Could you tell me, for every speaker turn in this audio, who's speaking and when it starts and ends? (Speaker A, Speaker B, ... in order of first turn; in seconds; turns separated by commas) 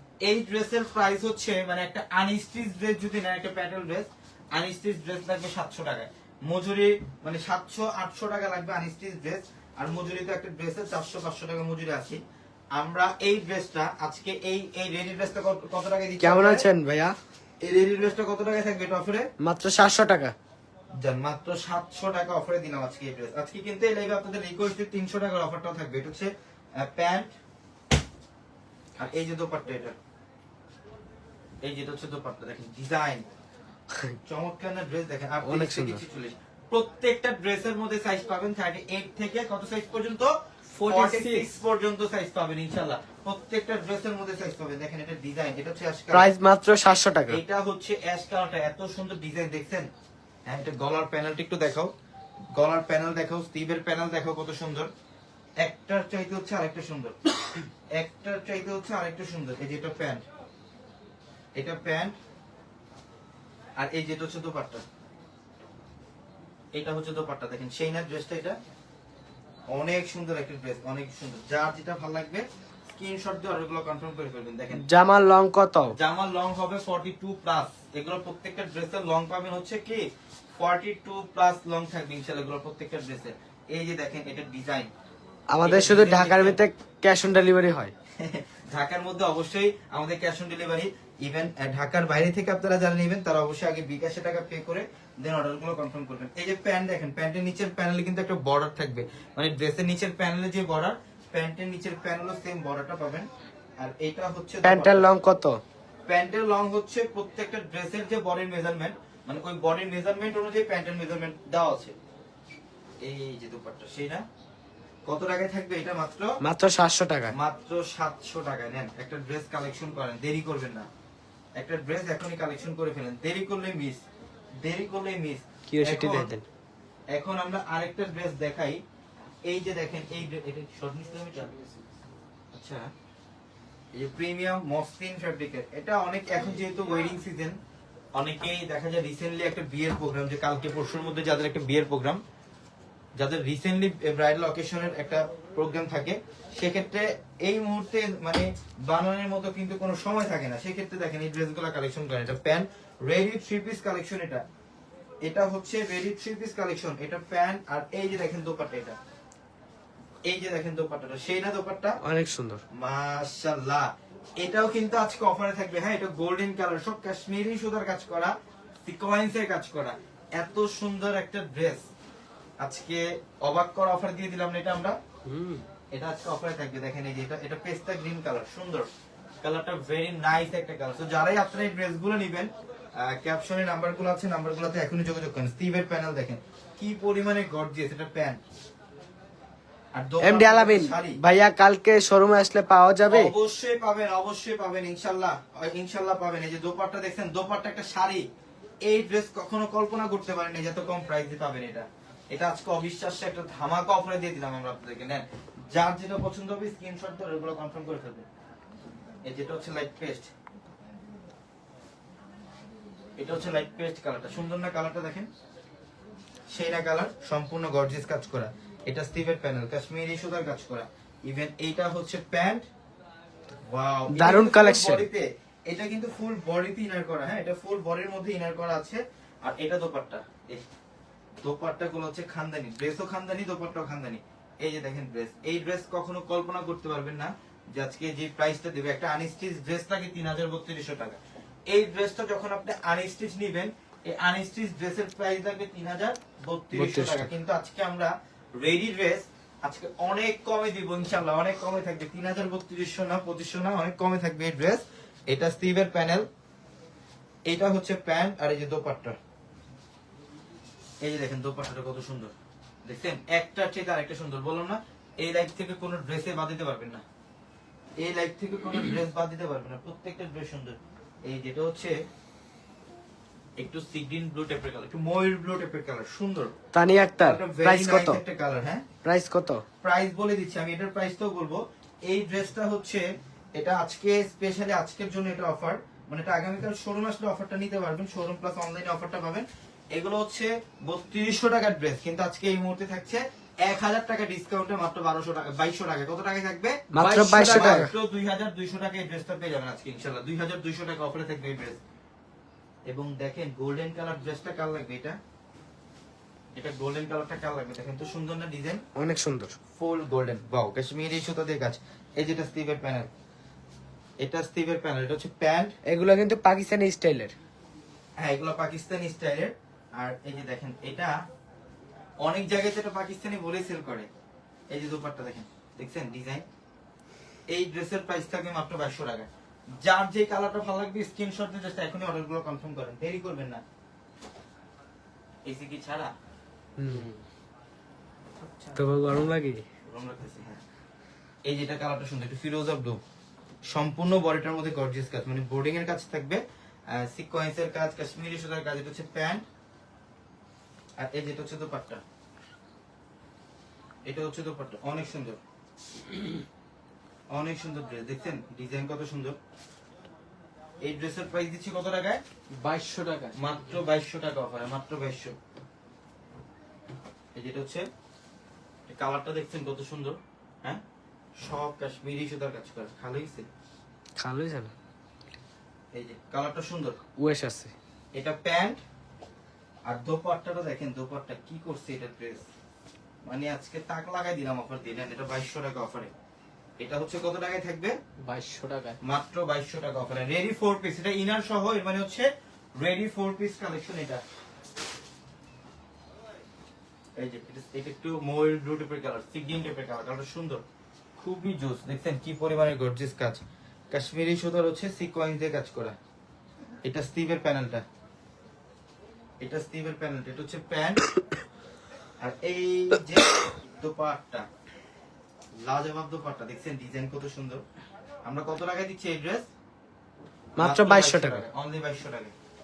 Speaker A: 0.2-12.2, Speaker A: 12.7-16.6, Speaker B: 16.2-17.2, Speaker A: 17.6-19.3, Speaker B: 19.4-20.3, Speaker A: 21.0-27.3, Speaker A: 29.0-29.9, Speaker A: 31.6-33.3, Speaker B: 33.9-34.2, Speaker A: 34.2-46.3, Speaker B: 35.4-36.0, Speaker C: 40.7-41.5, Speaker B: 46.1-47.4, Speaker A: 47.3-49.9, Speaker A: 50.5-51.9, Speaker A: 52.5-54.9, Speaker A: 55.6-57.2, Speaker A: 57.9-60.2, Speaker A: 61.5-62.1, Speaker A: 63.8-64.8, Speaker A: 66.7-68.6, Speaker A: 69.7-74.8, Speaker B: 74.7-75.9, Speaker A: 76.0-80.1, Speaker A: 80.6-84.9, Speaker B: 85.5-87.9, Speaker A: 85.6-86.6, Speaker A: 88.2-103.3, Speaker A: 103.8-105.1, Speaker B: 104.6-105.6, Speaker A: 106.1-112.0, Speaker A: 113.0-114.2, Speaker A: 115.0-116.3, Speaker B: 116.4-117.3, Speaker A: 117.3-120.9, Speaker A: 121.5-124.0, Speaker A: 124.6-126.3, Speaker B: 125.7-126.4, Speaker A: 127.1-128.8, Speaker A: 129.4-131.5, Speaker C: 131.3-132.0, Speaker A: 132.5-132.9, Speaker A: 133.9-137.6, Speaker A: 138.1-142.2, Speaker A: 143.2-154.4, Speaker A: 155.2-159.0, Speaker A: 160.2-162.0, Speaker B: 162.0-162.6, Speaker A: 162.7-171.8, Speaker A: 172.6-175.0, Speaker C: 175.3-175.6, Speaker A: 175.9-178.9, Speaker A: 179.4-188.4, Speaker A: 189.9-191.2, Speaker B: 190.2-193.3, Speaker A: 193.1-198.2, Speaker A: 198.8-208.2, Speaker A: 209.2-210.3, Speaker A: 213.2-215.3, Speaker A: 216.5-222.7, Speaker A: 223.7-230.6, Speaker B: 224.1-225.1, Speaker A: 231.4-256.3, Speaker B: 246.7-247.3, Speaker A: 257.5-259.2, Speaker A: 261.0-262.3, Speaker A: 262.8-267.0, Speaker A: 268.0-272.0, Speaker A: 273.6-276.5, Speaker B: 276.7-278.2, Speaker A: 277.2-278.9, Speaker B: 279.0-279.6, Speaker A: 279.8-301.8, Speaker B: 296.9-297.9, Speaker A: 302.9-305.2, Speaker A: 306.6-308.8, Speaker B: 308.9-309.5, Speaker A: 309.8-313.1, Speaker A: 314.2-315.7, Speaker B: 315.8-317.3, Speaker A: 318.2-321.2, Speaker A: 322.2-324.1, Speaker A: 324.7-326.4, Speaker A: 327.5-329.3, Speaker A: 329.8-333.6, Speaker A: 335.4-336.1, Speaker B: 336.8-337.1, Speaker C: 336.9-337.2, Speaker B: 338.7-339.6, Speaker A: 339.8-340.6, Speaker A: 341.4-343.0, Speaker A: 343.7-349.4, Speaker A: 351.0-352.0, Speaker A: 354.1-355.4, Speaker A: 357.3-359.4, Speaker A: 360.8-362.2, Speaker C: 362.5-363.4, Speaker A: 363.4-365.4, Speaker A: 367.3-367.9, Speaker A: 368.9-370.8, Speaker A: 371.4-373.5, Speaker B: 374.2-374.7, Speaker A: 375.9-377.0, Speaker B: 377.2-377.7, Speaker A: 378.1-378.8, Speaker A: 379.9-382.5, Speaker A: 383.2-386.1, Speaker A: 386.8-388.0, Speaker C: 388.2-389.0, Speaker A: 389.0-394.2, Speaker A: 397.1-400.6, Speaker A: 401.2-406.0, Speaker A: 406.8-407.8, Speaker A: 409.4-411.1, Speaker A: 412.2-414.4, Speaker A: 415.6-417.6, Speaker A: 418.2-419.5, Speaker B: 420.6-421.4, Speaker A: 420.6-422.3